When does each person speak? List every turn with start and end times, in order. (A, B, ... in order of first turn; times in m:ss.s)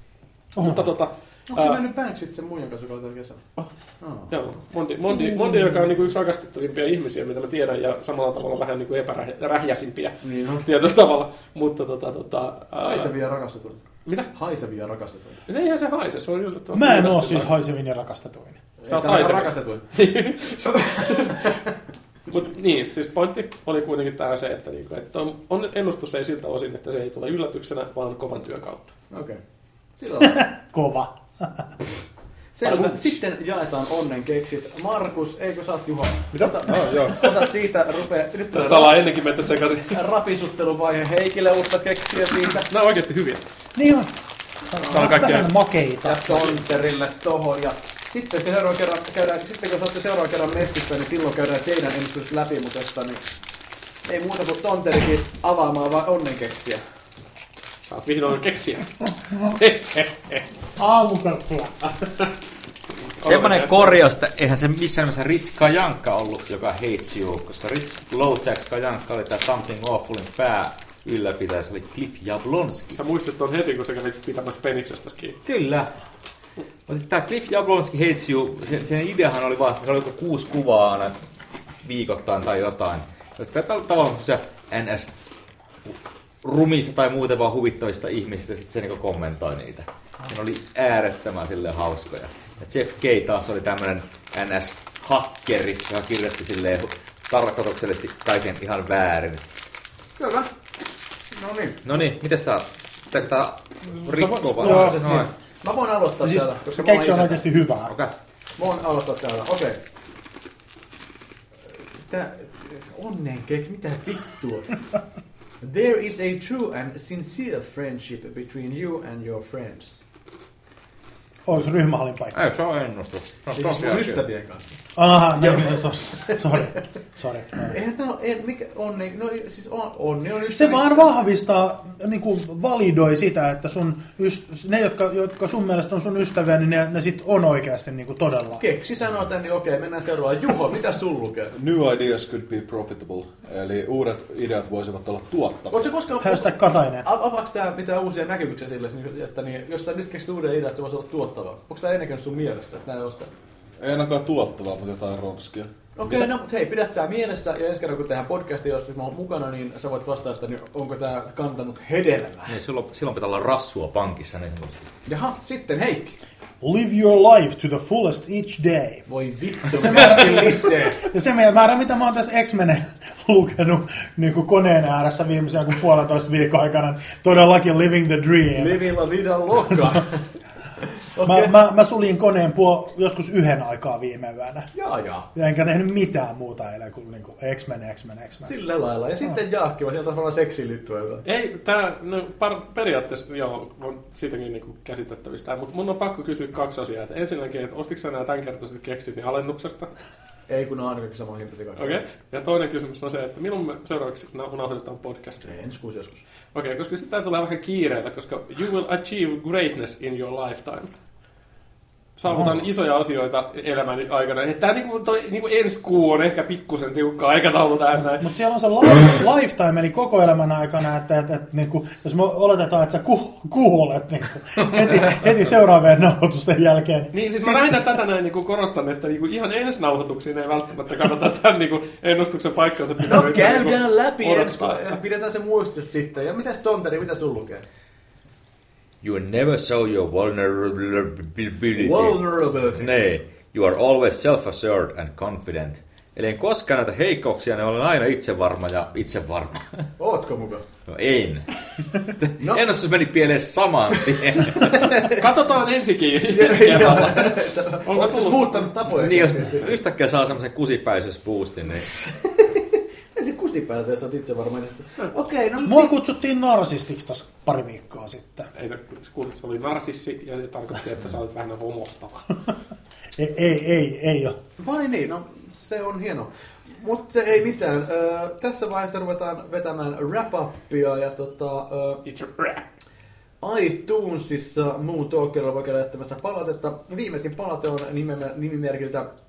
0:00.5-0:00.9 A
0:00.6-0:01.8 B
0:01.5-0:04.3 C
0:04.3-0:13.1 B
0:05.1-0:05.9 C
0:10.2-0:10.6 C
0:12.8-0:15.4 C
0:14.0-0:14.3 B
0:15.5-0:17.6 B
0:16.7-0:18.6 A
0:18.8-0:19.9 C
0:18.9-0:21.6 B
0:21.0-0:21.6 C
0:22.3-0:28.9 B
0:29.1-0:29.4 C
0:30.0-0:30.4 C
0:30.2-0:31.7 A
0:32.6-0:39.1 C
0:36.3-0:37.5 D
0:38.5-0:40.0 B
0:39.9-0:42.7 C
0:42.7-0:43.5 B
0:43.8-0:44.1 A
0:44.7-0:46.5 A
0:44.8-0:45.5 B
0:46.0-0:53.3 C
0:54.0-0:56.8 C
0:57.8-1:00.5 B
1:00.8-1:01.8 A
1:03.1-1:04.0 B
1:03.2-1:13.0 E
1:12.9-1:15.4 B
1:15.4-1:15.9 E
1:16.9-1:21.2 E
1:21.8-1:25.1 E
1:25.8-1:39.4 E
1:40.2-1:40.5 C
1:41.3-1:41.8 C
1:41.8-1:45.3 E
1:44.0-1:45.2 A
1:44.5-1:47.4 C
1:46.2-1:47.9 A
1:48.6-1:49.8 C
1:52.0-1:54.8 C
1:55.6-2:00.0 C
2:01.5-2:02.4 A
2:02.3-2:04.2 E
2:03.5-2:06.7 C
2:05.0-2:07.8 A
2:07.6-2:11.1 C
2:10.5-2:18.6 A
2:18.6-2:21.5 C
2:21.5-2:25.9 D
2:25.7-2:33.3 C
2:26.2-2:27.1 A
2:33.8-2:36.3 D
2:36.0-2:42.5 C
2:42.5-2:44.9 E
2:45.1-2:46.2 C
2:46.6-2:49.1 A
2:49.1-2:51.1 C
2:49.7-2:58.8 A
2:58.5-3:00.2 C
3:00.8-3:01.5 C
3:01.2-3:04.7 A
3:04.7-3:05.3 C
3:05.3-3:08.5 A
3:08.4-3:11.2 C
3:11.2-3:19.9 B
3:20.5-3:22.0 C
3:21.8-3:25.4 B
3:25.4-3:26.2 C
3:26.5-3:30.9 B
3:32.2-3:38.3 B
3:38.2-3:47.7 A
3:47.1-3:55.0 B
3:53.1-3:57.6 C
3:59.0-4:02.2 E
4:01.8-4:03.0 C
4:02.8-4:09.9 E
4:10.0-4:10.6 C
4:10.9-4:15.0 E
4:12.4-4:12.6 C
4:14.5-4:15.3 C
4:14.9-4:18.6 B
4:16.2-4:19.7 C
4:18.9-4:21.9 E
4:21.8-4:26.0 C
4:25.6-4:28.5 A
4:28.5-4:32.3 B
4:33.2-4:34.4 A
4:34.6-4:42.0 C
4:42.1-4:42.6 B
4:43.4-4:49.1 C